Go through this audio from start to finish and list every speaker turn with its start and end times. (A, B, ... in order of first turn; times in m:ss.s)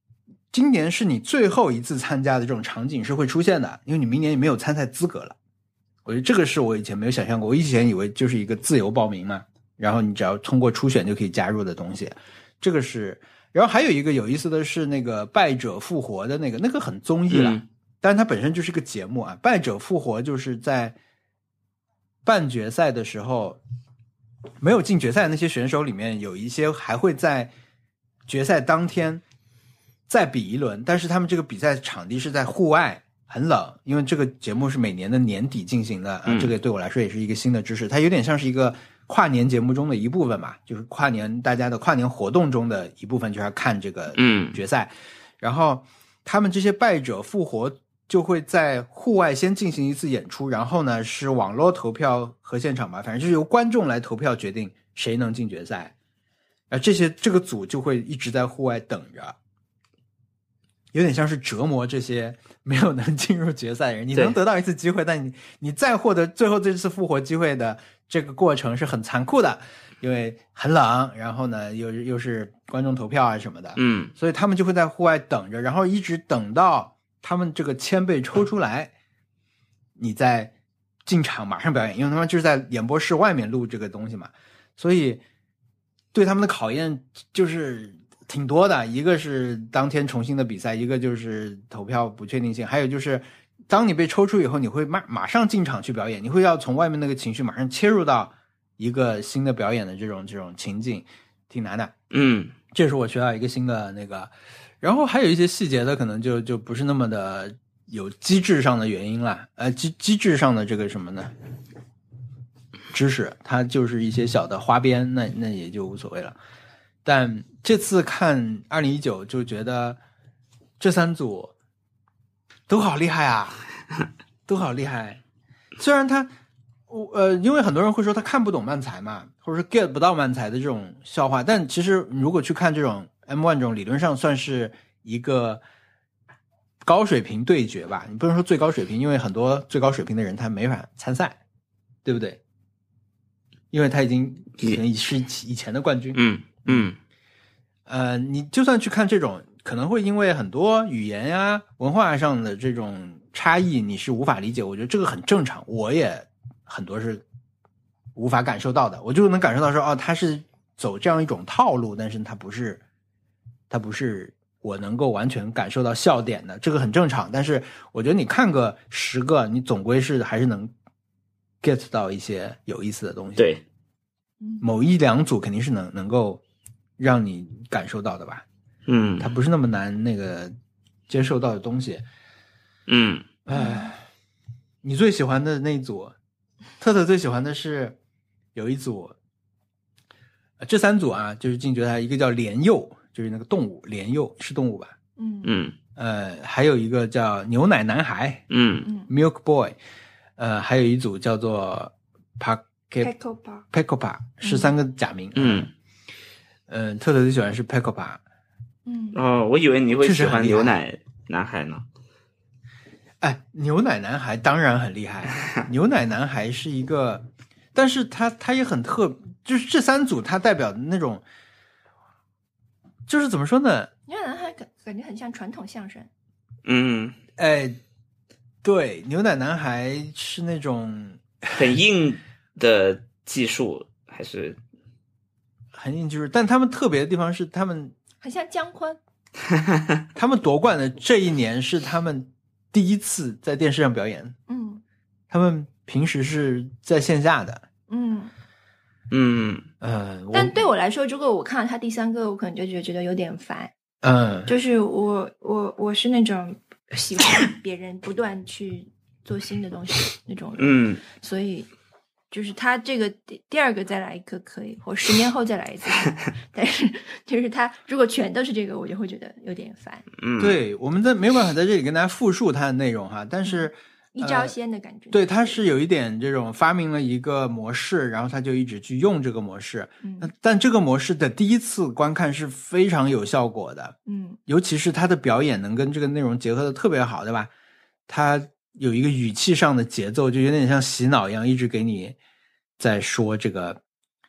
0:00.5-0:05.4 A
0:06.0-0:21.0 A
0:17.3-0:17.6 B
0:22.2-0:23.6 A
0:24.6-0:27.5 A
0:28.3-0:29.2 A
0:30.1-0:55.9 A
0:36.3-0:36.5 B
0:44.1-0:44.6 B
0:56.7-0:59.4 A
1:00.9-1:18.9 A
1:13.8-1:14.1 B
1:20.0-1:20.5 A
1:21.0-1:25.2 A
1:26.1-1:41.9 A
1:42.1-1:42.5 B
1:42.7-1:51.3 A
1:52.9-1:56.4 A
1:57.0-2:00.0 A
2:00.8-2:01.5 A
2:02.7-2:03.6 A
2:04.4-2:05.2 A
2:05.8-2:06.3 A
2:06.9-2:15.6 A
2:16.8-2:21.4 A
2:22.0-2:22.4 A
2:23.7-2:26.9 A
2:26.1-2:27.0 B
2:27.9-2:37.2 A
2:38.2-2:42.8 A
2:43.7-2:50.7 A
2:51.6-2:53.5 A
2:53.4-2:53.6 B
2:54.6-2:56.4 A
2:57.0-2:58.4 A
2:58.9-2:59.3 B
2:59.2-3:00.5 A
3:01.1-3:02.0 A
3:02.9-3:03.3 B
3:03.4-3:04.0 A
3:03.5-3:03.9 C
3:04.8-3:06.1 A
3:06.8-3:08.0 A
3:08.5-3:09.2 A
3:10.6-3:14.9 A
3:15.2-3:15.6 C
3:15.4-3:15.7 B
3:16.0-3:18.5 A
3:18.5-3:18.9 B
3:18.8-3:19.1 C
3:19.1-3:19.8 A
3:20.4-3:23.1 A
3:23.0-3:23.6 C
3:23.7-3:25.7 A
3:24.4-3:24.7 C
3:25.4-3:25.7 B
3:26.7-3:28.2 A
3:28.8-3:29.2 C
3:29.1-3:31.8 B
3:30.0-3:30.8 A
3:33.2-3:41.2 A
3:43.1-3:43.9 A
3:44.1-3:46.1 C
3:46.6-3:47.2 B
3:47.4-3:47.8 A
3:48.6-3:51.7 A
3:51.5-3:54.6 B
3:55.7-3:57.9 A
3:58.2-3:59.0 C
4:00.1-4:04.4 A
4:04.5-4:04.8 C
4:05.3-4:07.6 A
4:07.9-4:08.3 C
4:09.1-4:09.7 B
4:09.8-4:10.6 A
4:10.3-4:13.7 C
4:14.0-4:14.5 A
4:14.4-4:21.7 C
4:20.6-4:21.0 B
4:22.3-4:30.0 C
4:30.2-4:30.6 B
4:30.4-4:34.5 A
4:33.4-4:35.6 C
4:35.1-4:44.0 A
4:40.0-4:40.3 C
4:44.1-4:44.4 C
4:44.5-4:47.5 A
4:48.1-4:52.2 A
4:52.8-4:53.8 A